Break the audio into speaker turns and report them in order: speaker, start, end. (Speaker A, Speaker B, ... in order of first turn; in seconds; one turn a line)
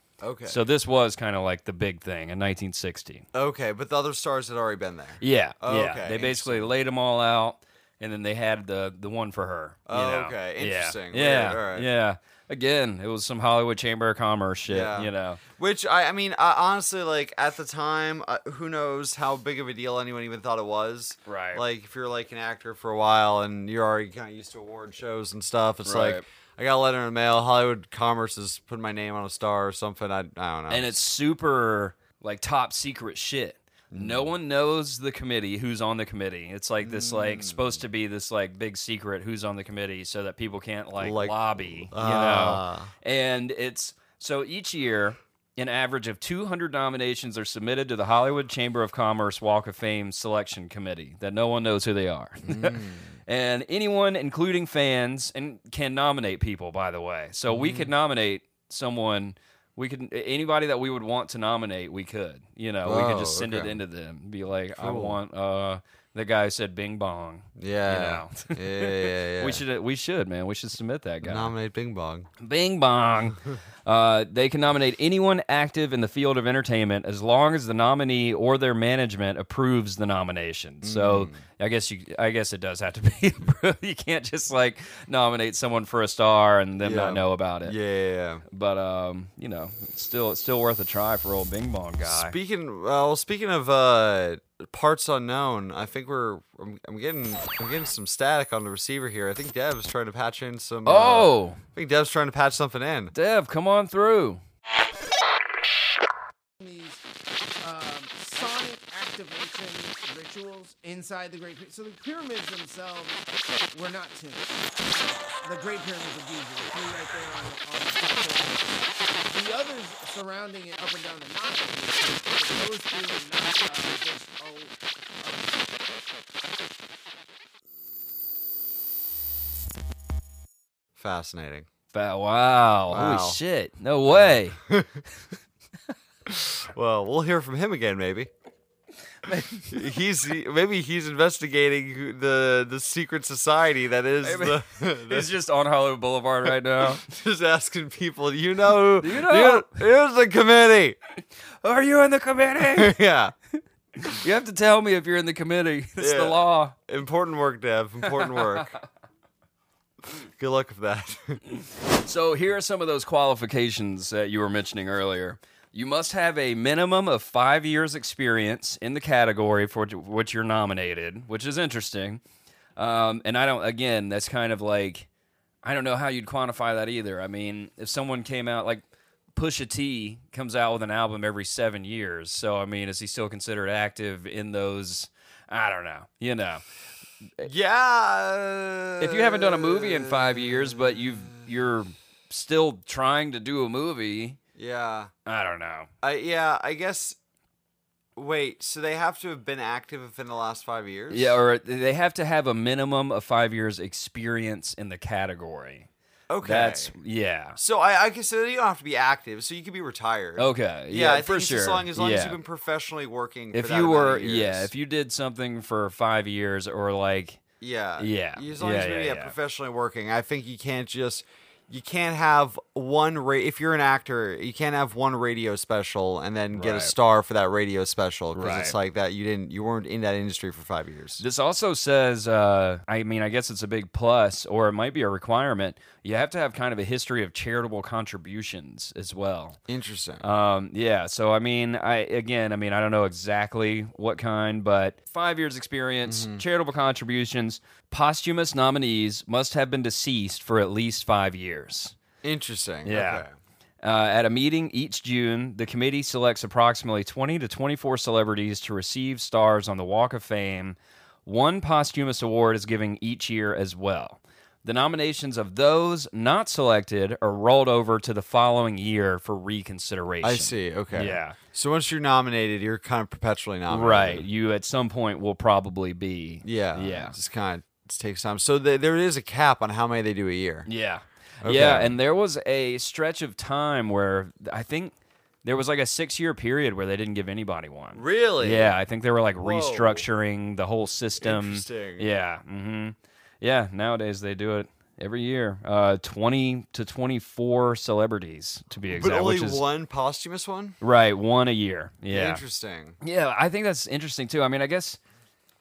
Speaker A: 0.2-0.6
Speaker B: 0.5-3.3
Speaker A: 3.3-6.7
Speaker B: 5.2-15.4
Speaker A: 9.9-11.9
Speaker A: 14.7-31.0
Speaker B: 21.3-21.6
Speaker B: 25.8-26.2
Speaker B: 30.7-71.5
Speaker A: 33.9-34.3
Speaker A: 36.8-37.8
Speaker A: 41.0-42.9
Speaker A: 52.5-53.1
Speaker A: 57.5-57.9
Speaker A: 62.9-63.8
Speaker A: 64.8-65.2
Speaker A: 67.6-69.6
Speaker A: 71.2-72.3
Speaker B: 72.4-87.8
Speaker A: 80.8-81.4
Speaker A: 86.8-88.4
Speaker B: 88.5-92.3
Speaker A: 92.0-103.1
Speaker B: 100.9-101.6
Speaker B: 103.1-104.4
Speaker C: 106.6-107.0
Speaker C: 107.6-118.7
Speaker C: 119.3-125.8
Speaker A: 131.0-131.7
Speaker B: 131.9-134.6
Speaker A: 132.9-133.4
Speaker A: 134.1-135.0
Speaker A: 136.3-138.3
Speaker B: 139.2-139.8
Speaker A: 139.7-145.3
Speaker B: 144.2-147.0
Speaker A: 146.8-151.0
Speaker B: 149.0-149.8
Speaker B: 151.6-153.0
Speaker A: 152.6-153.3
Speaker B: 154.1-156.8
Speaker A: 156.0-158.7
Speaker B: 158.0-158.8
Speaker A: 160.1-161.4
Speaker B: 161.5-172.2
Speaker B: 172.8-175.1
Speaker B: 175.6-178.8
Speaker B: 179.3-186.6
Speaker A: 187.4-191.0
Speaker B: 189.0-194.4
Speaker A: 194.6-195.1
Speaker B: 195.3-195.9
Speaker A: 196.0-197.2
Speaker A: 198.2-201.4
Speaker B: 201.1-205.9
Speaker A: 206.3-206.9
Speaker B: 206.4-207.6
Speaker A: 207.6-214.7
Speaker B: 210.4-212.4
Speaker B: 213.5-217.4
Speaker A: 217.6-231.2
Speaker B: 218.0-219.3
Speaker B: 226.6-226.9
Speaker B: 228.3-228.8
Speaker B: 231.2-239.6
Speaker A: 239.7-240.2
Speaker B: 240.2-252.0
Speaker A: 246.1-246.4
Speaker A: 252.2-253.3
Speaker B: 252.9-253.2
Speaker B: 253.8-271.4
Speaker A: 270.2-274.3
Speaker B: 273.7-277.2
Speaker A: 276.4-280.7
Speaker B: 280.7-284.9
Speaker A: 281.4-281.9
Speaker B: 285.4-299.6
Speaker A: 287.9-288.8
Speaker A: 289.4-290.1
Speaker A: 291.2-292.1
Speaker A: 298.9-300.8
Speaker B: 300.8-302.4
Speaker A: 302.1-303.0
Speaker B: 303.0-305.0